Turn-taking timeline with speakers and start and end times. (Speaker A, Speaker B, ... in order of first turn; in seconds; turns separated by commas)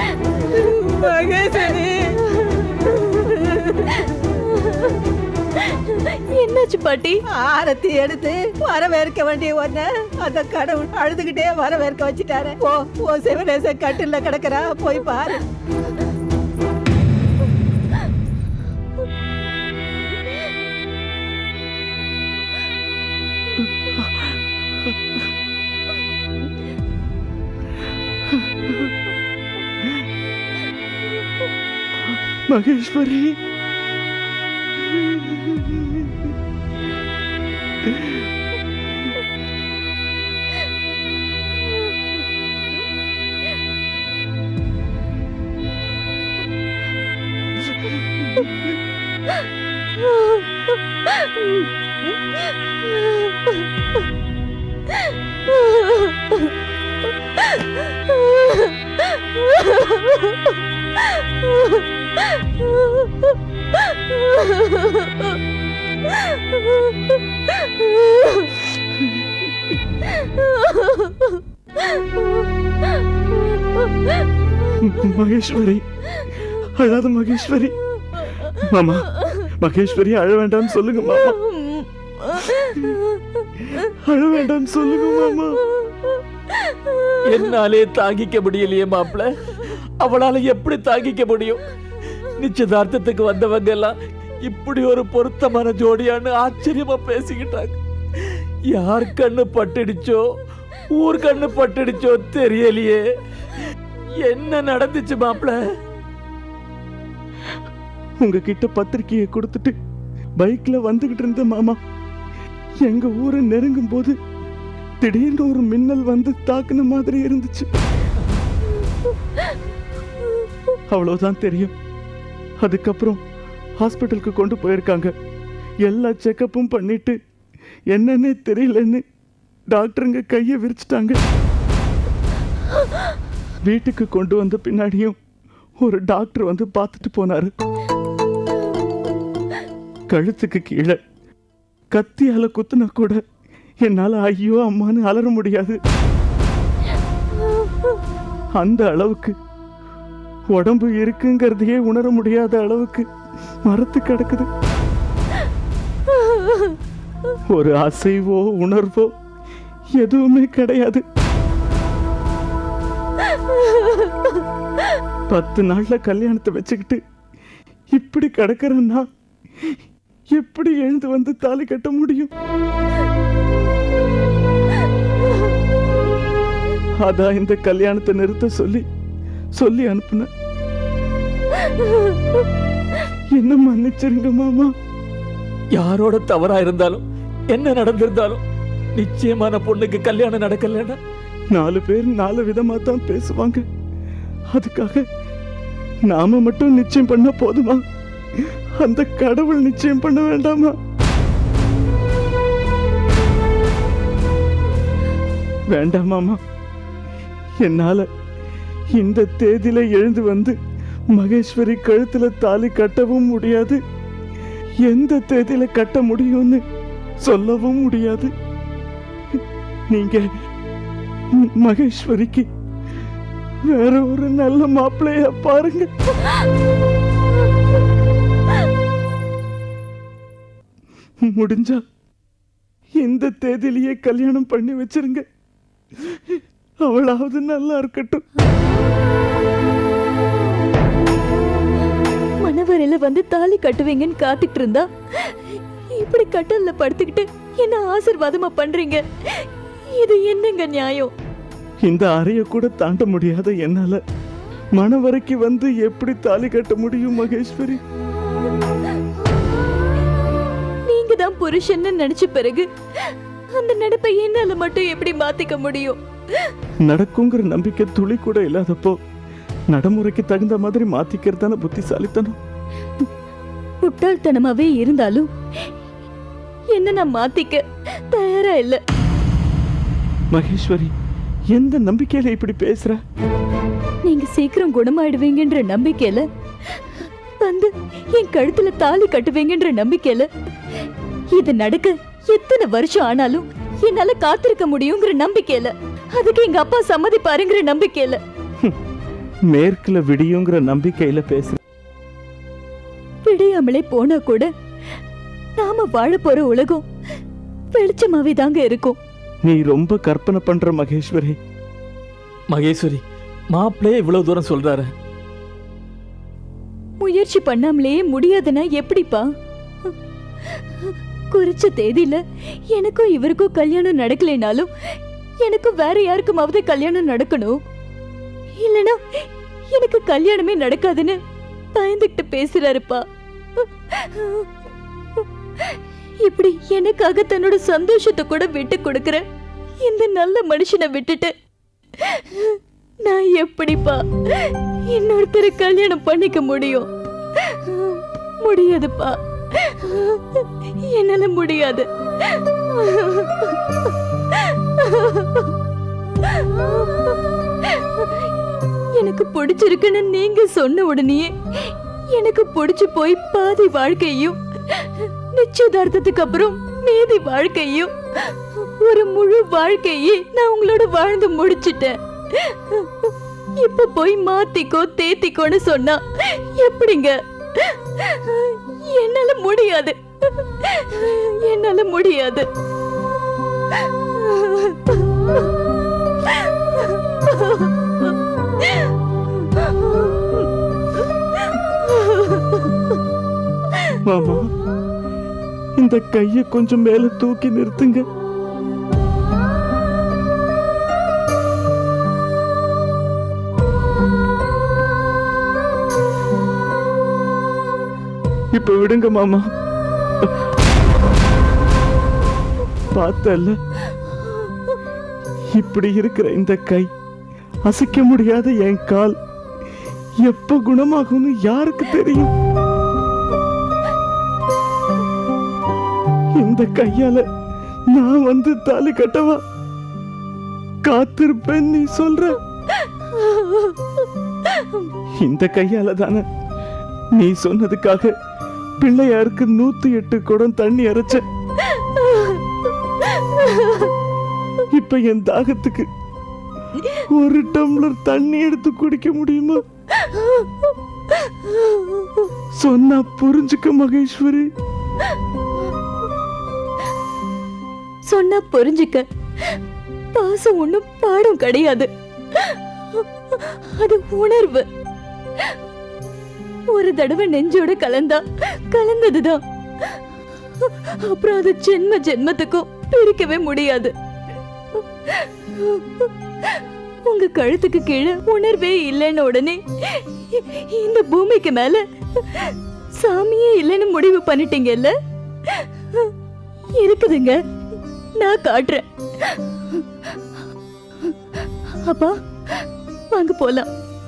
Speaker A: 0.5-2.1, Speaker B: 2.3-3.3, Speaker B: 4.4-4.9, Speaker B: 5.7-7.2, Speaker A: 7.3-15.4, Speaker C: 23.6-24.3, Speaker C: 24.8-25.2, Speaker C: 28.3-28.9, Speaker C: 32.1-33.4, Speaker C: 35.5-36.0, Speaker B: 50.1-50.4, Speaker B: 51.1-51.6, Speaker B: 55.5-56.1, Speaker B: 58.3-58.7, Speaker B: 59.4-60.3, Speaker B: 64.2-65.1, Speaker B: 68.1-68.5, Speaker B: 70.6-71.0, Speaker C: 74.8-75.8, Speaker C: 76.4-77.8, Speaker C: 78.4-81.4, Speaker B: 81.1-83.2, Speaker C: 83.8-85.6, Speaker B: 85.9-86.1, Speaker D: 87.3-91.6, Speaker D: 92.4-97.8, Speaker D: 98.7-100.2, Speaker D: 101.0-103.0, Speaker D: 104.2-105.5, Speaker C: 108.2-109.7, Speaker C: 110.4-111.8, Speaker C: 112.8-114.1, Speaker C: 115.0-117.7, Speaker C: 120.9-121.7, Speaker C: 122.6-123.2, Speaker C: 123.8-125.1, Speaker C: 125.8-127.2, Speaker C: 127.9-129.0, Speaker C: 129.7-131.2, Speaker C: 133.7-135.2, Speaker C: 135.8-137.5, Speaker C: 140.1-141.0, Speaker C: 141.9-143.2, Speaker C: 143.8-145.8, Speaker C: 148.5-149.3, Speaker C: 150.5-153.0, Speaker C: 153.7-154.5, Speaker C: 157.5-159.1, Speaker C: 160.0-161.0, Speaker C: 165.3-167.0, Speaker C: 167.9-169.1, Speaker C: 170.3-172.3, Speaker C: 177.0-178.8, Speaker C: 179.6-180.3, Speaker C: 183.3-184.7, Speaker D: 185.7-188.4, Speaker D: 188.9-191.0, Speaker C: 191.5-193.6, Speaker C: 194.5-195.0, Speaker C: 196.1-197.8, Speaker C: 198.4-200.7, Speaker C: 205.7-206.4, Speaker C: 207.6-208.1, Speaker C: 208.9-210.6, Speaker C: 211.1-213.8, Speaker C: 214.8-216.6, Speaker C: 217.2-218.3, Speaker C: 219.9-220.3, Speaker C: 221.4-222.4, Speaker C: 223.7-225.9, Speaker C: 231.2-231.8, Speaker C: 233.0-235.2, Speaker C: 236.0-238.2, Speaker B: 242.4-245.3, Speaker B: 245.9-251.1, Speaker C: 251.8-254.0, Speaker C: 254.8-257.8, Speaker B: 260.9-262.6, Speaker B: 263.5-266.0, Speaker C: 266.9-269.0, Speaker C: 269.7-272.4, Speaker B: 273.8-275.2, Speaker B: 276.7-278.8, Speaker C: 280.3-280.9, Speaker C: 281.5-283.0, Speaker B: 284.0-286.2, Speaker B: 287.4-290.3, Speaker B: 291.3-298.2, Speaker C: 299.5-301.6, Speaker B: 303.2-304.5, Speaker B: 305.6-306.8, Speaker B: 307.7-309.0, Speaker C: 309.4-311.4, Speaker D: 312.5-314.9, Speaker B: 317.0-319.2, Speaker B: 321.3-322.2, Speaker B: 322.7-324.7, Speaker B: 325.4-327.5, Speaker B: 328.6-329.0, Speaker B: 329.7-331.2, Speaker B: 331.7-333.0, Speaker B: 333.6-334.5, Speaker B: 336.2-339.2, Speaker B: 339.8-341.3, Speaker B: 342.0-346.9, Speaker B: 347.4-353.6, Speaker B: 354.4-355.5, Speaker B: 356.3-357.1, Speaker B: 357.8-358.3, Speaker B: 358.9-382.5, Speaker B: 384.2-384.8, Speaker C: 394.0-394.5, Speaker C: 395.8-398.1, Speaker C: 408.5-409.4, Speaker C: 412.9-413.6, Speaker C: 415.5-416.9, Speaker C: 417.6-419.1, Speaker C: 420.2-422.3, Speaker C: 426.4-427.2, Speaker C: 427.9-429.4, Speaker C: 430.8-432.4, Speaker C: 435.2-436.2, Speaker C: 437.1-438.1, Speaker C: 438.8-441.2, Speaker B: 442.0-442.3, Speaker B: 443.4-443.9, Speaker C: 444.7-445.9, Speaker C: 446.9-449.6, Speaker B: 450.2-450.4, Speaker C: 452.6-454.4, Speaker B: 458.1-459.0, Speaker B: 460.1-464.6, Speaker B: 466.7-469.4, Speaker B: 470.6-473.9, Speaker B: 475.2-476.1, Speaker B: 477.0-484.9, Speaker B: 485.5-486.1, Speaker B: 486.8-487.4, Speaker B: 488.2-488.8, Speaker B: 491.8-492.1, Speaker B: 493.1-493.7